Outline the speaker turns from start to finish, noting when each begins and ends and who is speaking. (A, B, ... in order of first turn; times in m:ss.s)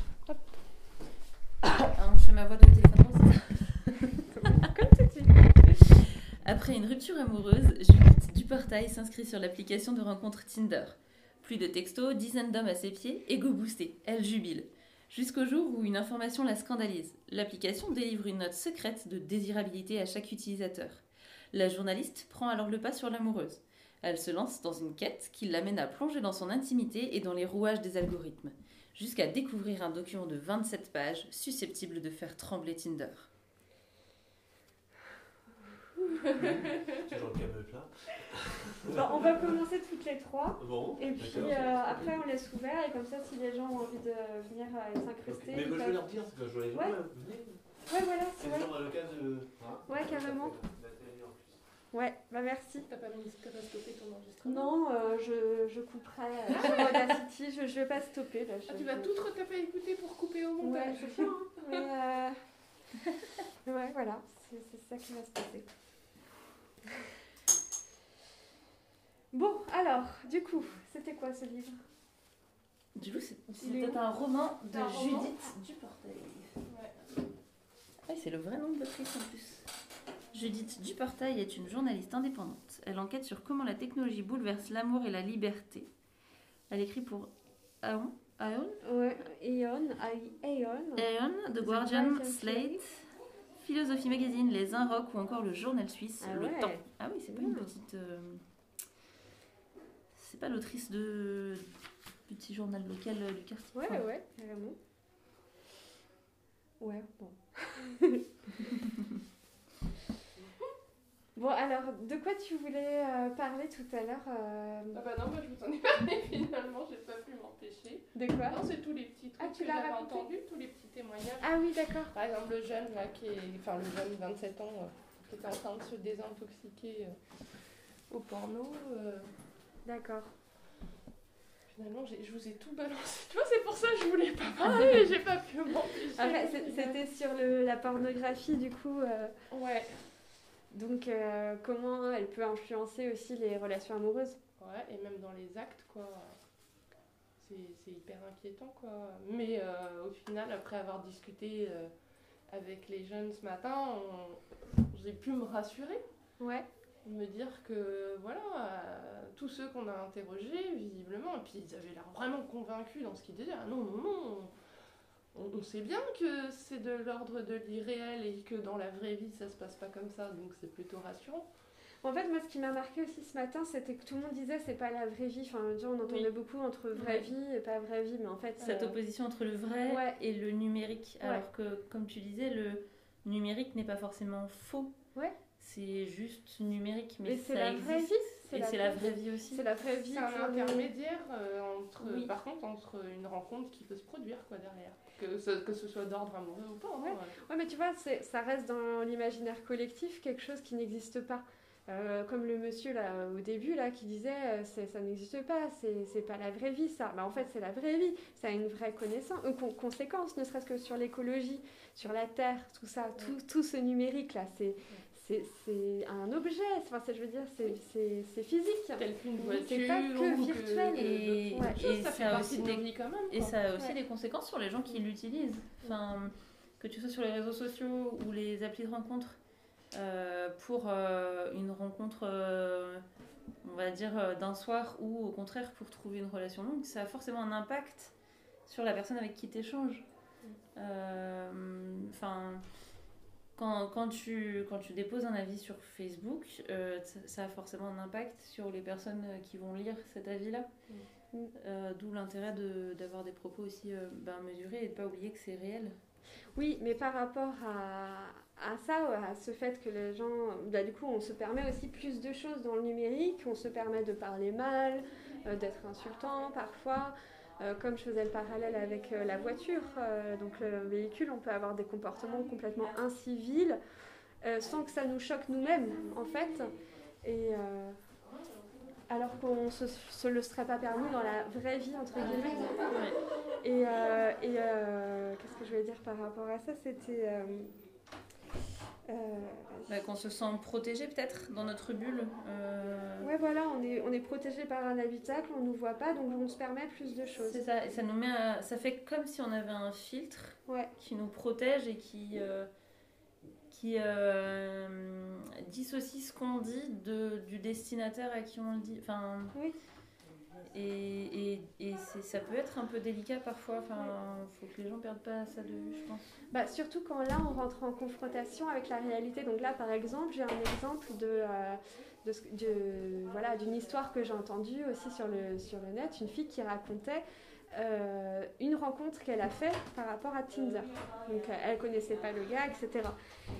0:01.8-0:04.5 A
0:04.4-0:05.4 B
0:05.6-0:33.3 A
0:36.0-0:36.4 B
0:36.3-0:39.5 C
0:38.9-0:47.0 B
0:40.6-0:42.2 C
0:45.2-0:51.7 C
0:47.9-0:48.8 B
0:49.9-0:50.6 B
0:51.9-0:52.9 B
0:52.9-0:54.8 D
0:54.4-0:59.2 B
0:56.5-0:57.1 D
0:58.7-1:01.8 D
1:00.6-1:02.4 B
1:03.7-1:05.7 B
1:09.3-1:11.8 B
1:13.0-1:16.5 A
1:13.6-1:14.0 B
1:14.7-1:15.5 B
1:16.7-1:16.9 D
1:18.1-1:19.7 A
1:20.3-1:25.9 A
1:26.7-1:27.3 A
1:27.8-1:28.8 A
1:28.8-1:32.8 B
1:31.0-1:33.0 A
1:33.6-1:38.4 A
1:36.2-1:37.7 B
1:40.2-1:41.7 A
1:42.3-1:44.1 A
1:43.7-1:44.8 B
1:46.8-1:48.9 B
1:51.4-1:55.0 B
1:54.9-2:01.6 D
1:58.2-1:58.7 B
1:59.4-2:00.3 B
2:01.4-2:02.1 B
2:02.1-2:07.2 D
2:08.1-2:09.3 D
2:09.8-2:10.3 B
2:11.7-2:17.0 D
2:16.2-2:19.4 B
2:19.5-2:20.0 D
2:20.7-2:24.4 B
2:24.6-2:26.4 D
2:27.4-2:31.9 D
2:32.5-2:34.4 D
2:34.9-2:36.0 D
2:36.4-2:36.7 B
2:37.0-2:44.5 D
2:45.4-2:51.5 D
2:52.0-2:59.0 B
2:57.0-2:57.2 D
2:58.6-2:58.9 D
2:58.6-3:04.9 A
2:59.8-3:00.1 B
3:05.6-3:09.5 A
3:07.2-3:10.9 B
3:09.7-3:17.4 D
3:12.0-3:12.3 A
3:17.0-3:41.1 B
3:39.0-3:43.5 D
3:40.4-3:49.4 A
3:49.9-3:53.0 A
3:53.6-3:58.1 A
3:58.7-4:00.0 A
4:00.8-4:02.6 A
4:03.6-4:10.7 A
4:11.6-4:16.0 A
4:16.6-4:33.8 B
4:34.4-4:38.0 B
4:39.1-4:47.7 B
4:42.7-4:43.2 A
4:49.1-4:50.2 B
4:49.9-4:53.3 A
4:53.2-4:57.6 B
4:57.4-5:02.7 A
5:03.7-5:09.5 A
5:10.7-5:16.4 A
5:16.5-5:33.2 B